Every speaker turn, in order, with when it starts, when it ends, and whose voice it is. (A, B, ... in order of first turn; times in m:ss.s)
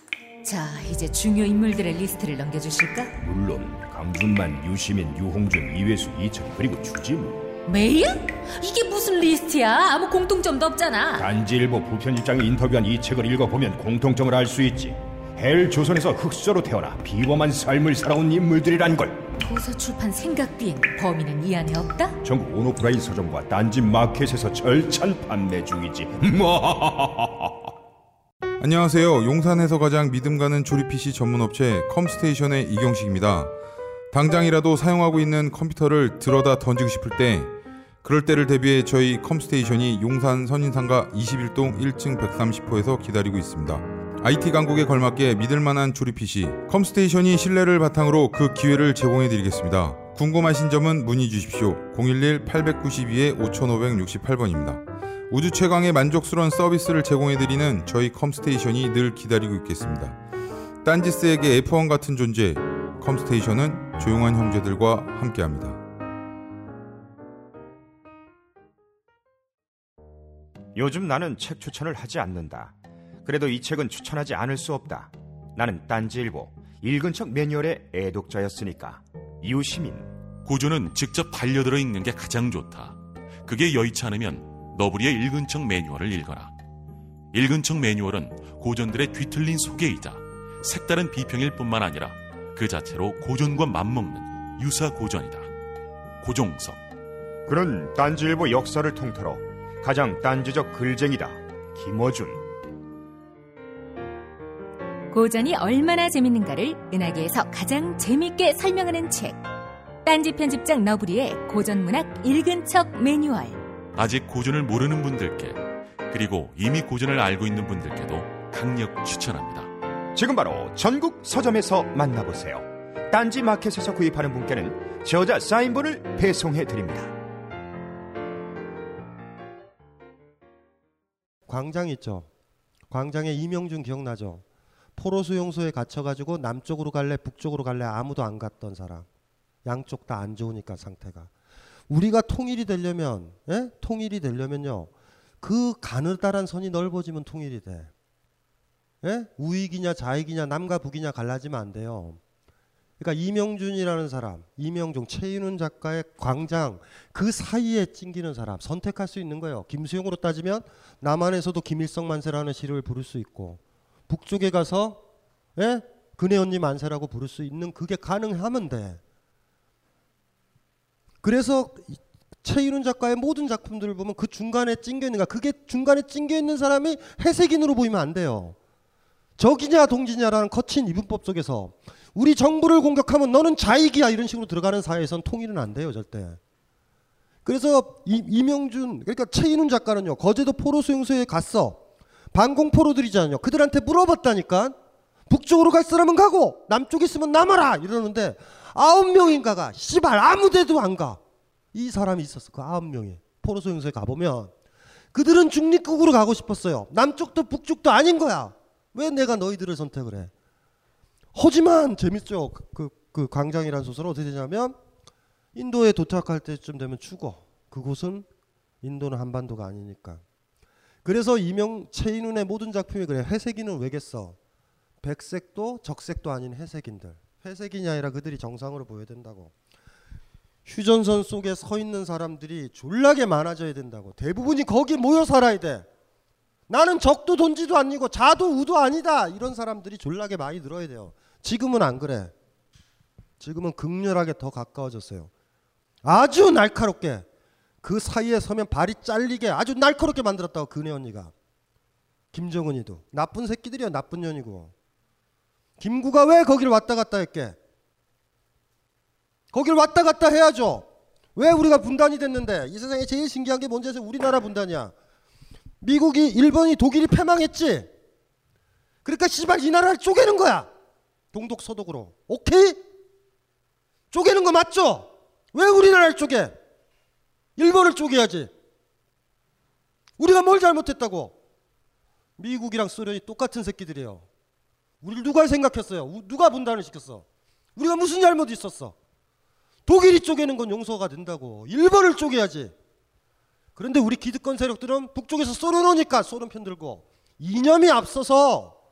0:00.4-0:03.1 A
0:03.2-0:07.4 B
0:07.6-0:11.3 A
0:11.2-0:19.3 B
0:19.4-0:22.2 A
0:22.2-0:27.7 B
0:28.6-0:33.5 C
0:34.1-0:37.5 C
0:38.0-1:00.2 C
1:00.8-1:05.8 C
1:10.7-1:20.1 D
1:20.4-1:26.5 E
1:27.3-1:35.5 E
1:36.2-1:36.8 E
1:37.4-1:42.4 D
1:45.1-1:49.4 A
1:50.0-1:53.6 A
1:53.9-1:59.7 E
2:00.1-2:07.2 D
2:11.5-2:12.3 F
2:12.9-2:14.4 F
2:15.0-2:19.0 F
2:19.6-2:21.3 F
2:21.9-2:27.9 F
2:29.0-2:32.2 F
2:33.0-2:45.0 F
2:45.6-2:49.0 F
2:51.2-2:58.6 F
2:59.4-3:06.4 F
3:07.4-3:11.8 F
3:12.3-3:14.8 F
3:15.3-3:21.2 F
3:21.7-3:24.5 F
3:25.1-3:30.3 F
3:31.3-3:34.8 F
3:35.5-3:38.2 F
3:38.8-3:40.2 F
3:41.0-3:44.4 F
3:45.0-3:49.5 F
3:50.6-3:55.9 F
3:56.7-4:02.3 F
4:03.4-4:05.3 F
4:06.0-4:07.2 F
4:07.8-4:11.3 F
4:12.3-4:14.7 F
4:15.8-4:17.6 F
4:19.5-4:24.9 F
4:25.8-4:27.9 F
4:29.0-4:30.7 F
4:31.3-4:32.8 F
4:34.1-4:36.5 F
4:37.6-4:38.5 F
4:40.2-4:41.4 F
4:42.4-4:44.2 F
4:45.0-4:47.2 F
4:47.8-4:48.9 F
4:49.9-4:52.7 F
4:53.8-4:58.8 F